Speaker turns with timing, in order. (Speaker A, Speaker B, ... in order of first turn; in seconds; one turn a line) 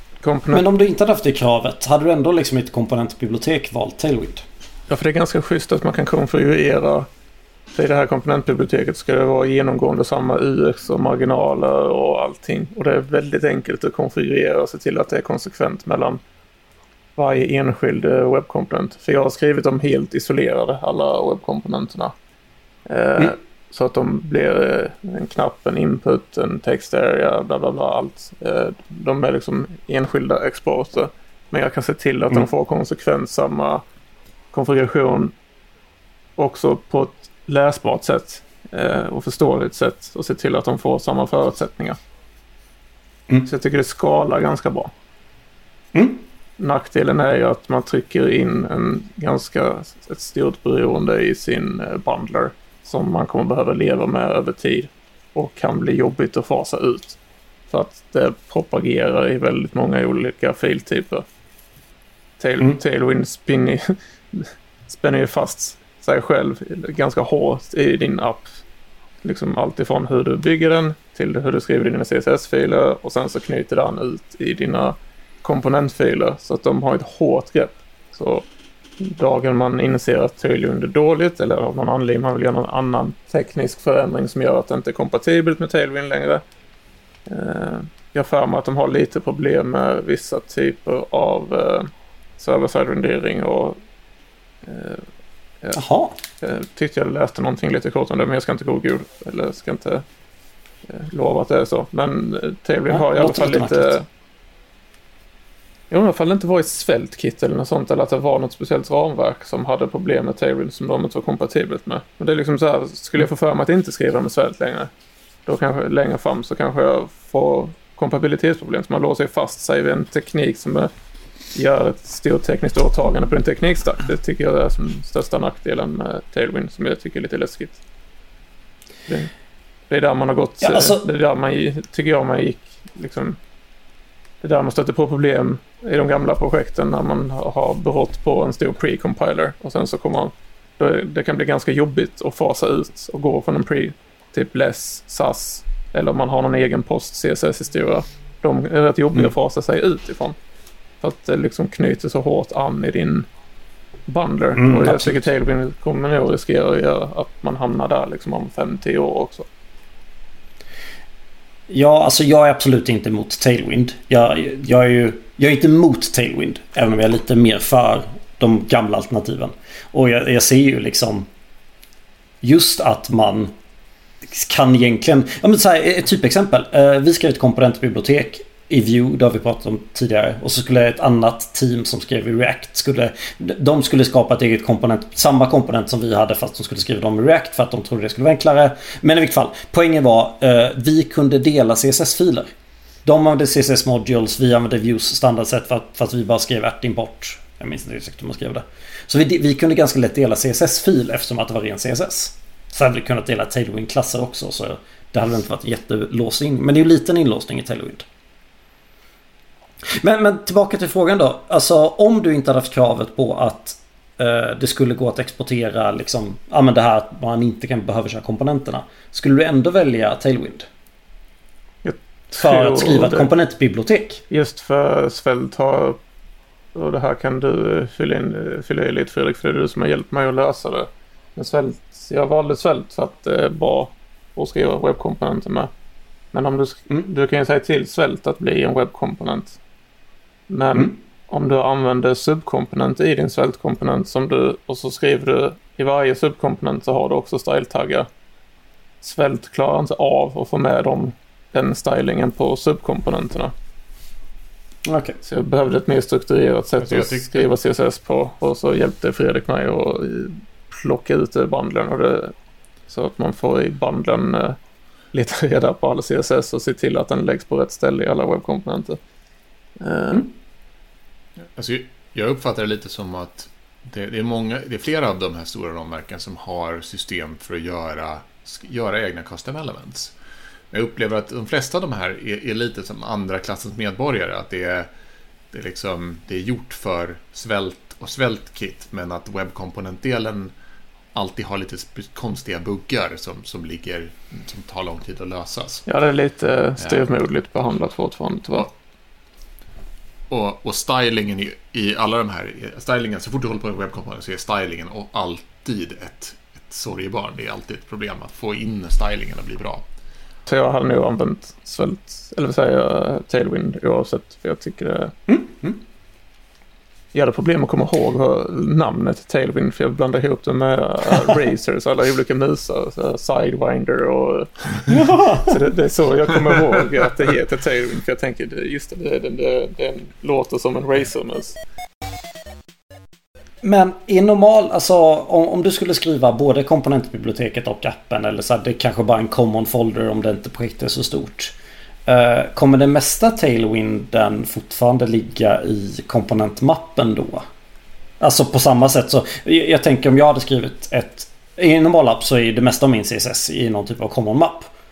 Speaker A: 0.2-0.6
Speaker B: 0.5-4.4
Speaker A: 4.9-7.1
Speaker A: 7.7-16.2
Speaker A: 17.1-22.1
Speaker A: 22.9-33.8
Speaker A: 34.5-35.3
Speaker A: 36.4-42.0
Speaker A: 43.5-44.9
Speaker B: 45.9-46.2
Speaker A: 46.6-57.2
Speaker A: 57.7-61.2
Speaker A: 62.4-68.5
Speaker A: 69.2-78.5
Speaker A: 79.0-86.4
Speaker A: 87.3-93.8
Speaker A: 94.6-95.0
Speaker B: 95.7-96.2
Speaker A: 96.4-100.0
Speaker A: 100.9-104.0
Speaker B: 102.9-104.0
Speaker A: 105.9-114.9
Speaker A: 115.5-120.9
Speaker A: 121.5-127.8
Speaker A: 129.9-133.4
Speaker B: 130.6-131.0
Speaker A: 134.4-150.3
Speaker A: 151.0-153.3
Speaker A: 154.1-159.5
Speaker B: 154.6-155.2
Speaker B: 161.7-171.3
Speaker B: 172.4-173.5
Speaker B: 174.3-192.5
Speaker B: 193.0-208.1
Speaker B: 209.9-220.7
Speaker A: 221.8-223.3
Speaker B: 222.4-224.2
Speaker A: 224.3-226.0
Speaker A: 226.7-235.7
Speaker A: 236.3-239.6
Speaker A: 240.5-248.1
Speaker A: 249.0-253.5
Speaker B: 254.8-255.2
Speaker A: 255.2-262.3
Speaker C: 256.8-257.3
Speaker A: 262.9-264.6
Speaker A: 265.1-269.0
Speaker A: 269.8-270.3
Speaker C: 271.4-280.1
Speaker C: 280.7-284.9
Speaker C: 285.5-290.5
Speaker C: 291.1-295.8
Speaker A: 295.9-298.7
Speaker C: 300.3-309.8
Speaker A: 310.5-315.1
Speaker B: 315.3-315.8
Speaker A: 317.1-331.6
Speaker B: 324.9-325.6
Speaker B: 333.6-341.5
Speaker B: 342.1-347.4
Speaker B: 348.2-354.7